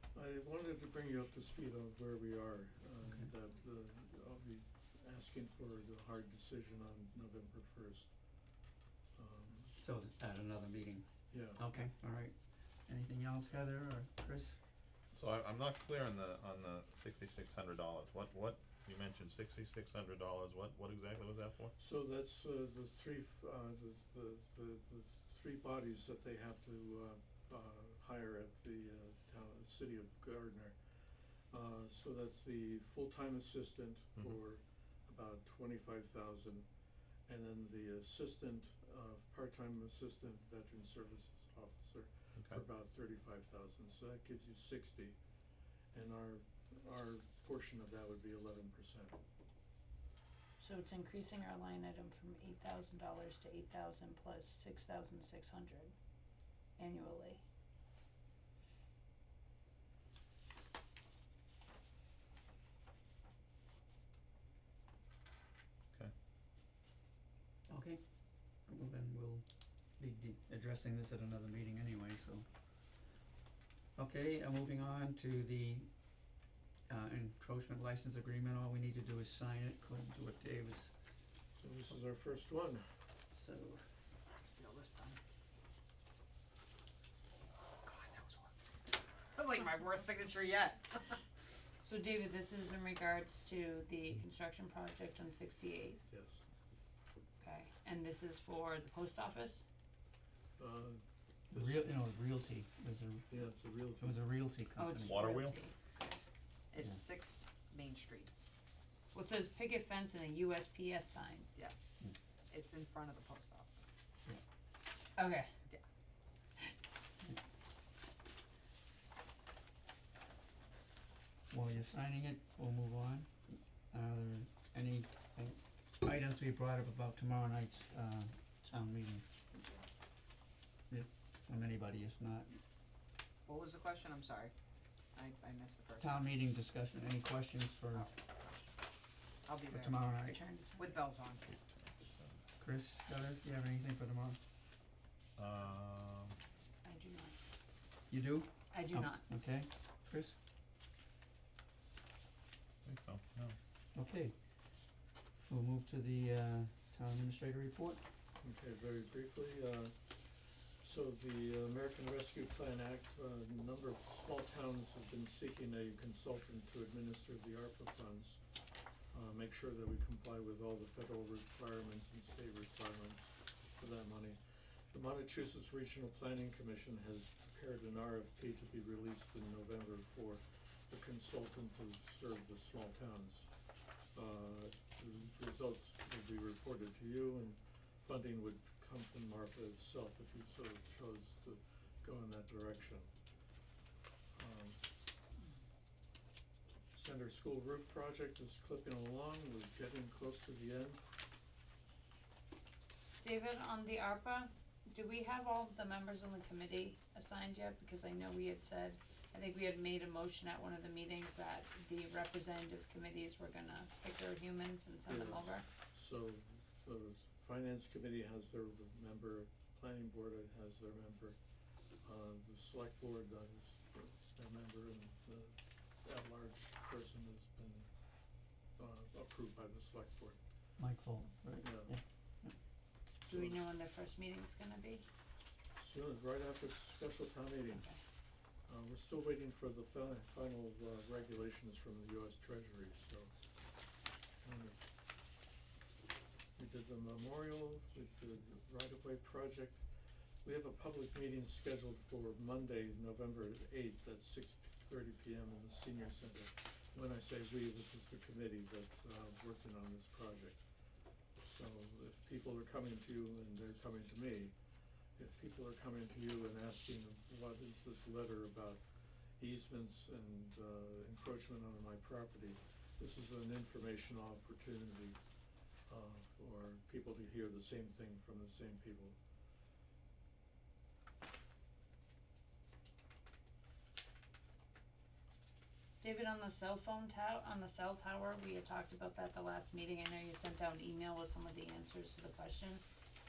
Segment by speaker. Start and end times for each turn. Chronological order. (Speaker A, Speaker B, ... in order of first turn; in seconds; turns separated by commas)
Speaker A: 0.1-8.1, Speaker A: 9.2-9.7, Speaker B: 9.8-12.3, Speaker A: 11.3-11.6, Speaker B: 12.9-14.6, Speaker C: 15.1-21.7, Speaker A: 21.8-36.6, Speaker A: 37.3-45.2, Speaker C: 42.4-42.6, Speaker A: 45.9-49.2, Speaker D: 50.6-55.9, Speaker D: 56.8-57.4, Speaker B: 67.7-68.0, Speaker B: 68.7-69.4, Speaker B: 70.0-72.5, Speaker B: 74.0-75.9, Speaker B: 76.9-80.9, Speaker A: 81.6-82.8, Speaker B: 83.3-83.8, Speaker E: 84.3-85.2, Speaker E: 87.8-91.2, Speaker D: 91.8-96.0, Speaker A: 96.1-96.4, Speaker D: 97.4-99.7, Speaker A: 100.6-101.9, Speaker B: 101.5-103.3, Speaker A: 103.3-104.2, Speaker B: 104.0-105.2, Speaker D: 104.8-105.7, Speaker C: 105.1-105.6, Speaker E: 106.7-108.3, Speaker D: 109.1-111.5, Speaker E: 112.5-113.7, Speaker D: 115.2-115.5, Speaker B: 121.5-129.3, Speaker B: 130.9-132.6, Speaker E: 133.4-134.5, Speaker E: 135.1-136.2, Speaker B: 136.0-138.1, Speaker E: 139.4-140.2, Speaker B: 139.7-140.4, Speaker D: 140.2-140.9, Speaker E: 140.8-141.5, Speaker C: 141.5-142.4, Speaker B: 142.6-144.4, Speaker C: 145.4-146.4, Speaker D: 146.8-147.4, Speaker B: 148.1-150.3, Speaker D: 148.7-149.2, Speaker C: 152.8-153.6, Speaker B: 153.9-154.3, Speaker B: 155.5-158.0, Speaker A: 158.4-168.4, Speaker A: 169.1-183.5, Speaker A: 184.1-193.1, Speaker A: 194.3-194.8, Speaker A: 196.9-201.0, Speaker D: 203.2-215.7, Speaker A: 215.1-221.4, Speaker A: 222.0-227.9, Speaker A: 228.8-230.4, Speaker B: 230.8-232.5, Speaker A: 231.6-231.9, Speaker A: 233.2-233.6, Speaker D: 233.3-235.0, Speaker A: 235.7-237.9, Speaker D: 237.7-238.0, Speaker A: 238.7-243.3, Speaker A: 244.4-244.9, Speaker A: 246.6-249.8, Speaker A: 250.4-260.6, Speaker A: 261.4-264.5, Speaker A: 265.1-268.8, Speaker A: 269.4-275.2, Speaker A: 275.9-279.2, Speaker D: 286.0-292.8